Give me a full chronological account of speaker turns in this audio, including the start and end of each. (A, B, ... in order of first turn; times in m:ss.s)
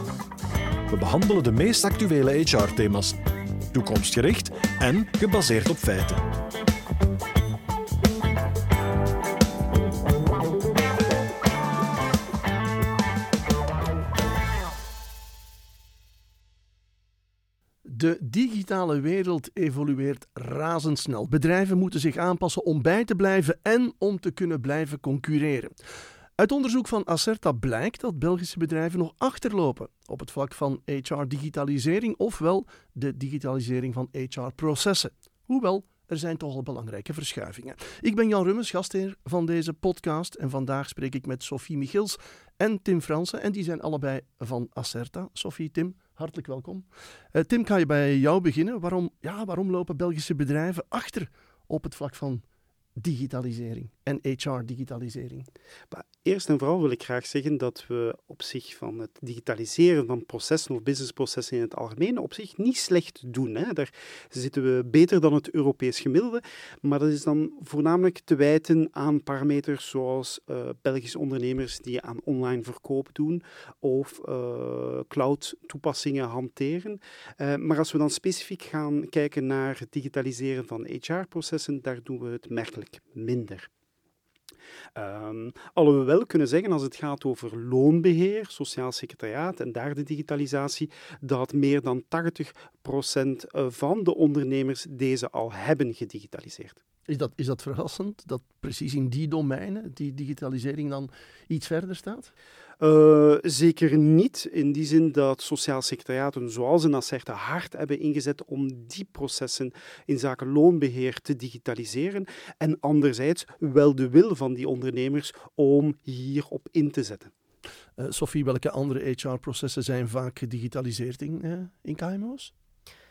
0:00.9-0:03.2 A
0:03.7-0:06.2 A
0:17.8-0:25.8 B
0:26.4-0:52.4 B
0:53.0-0:55.5 B
0:55.9-1:23.7 C
1:25.0-1:36.8 C
1:37.1-1:42.3 B
1:42.8-1:57.3 C
1:58.0-2:02.5 B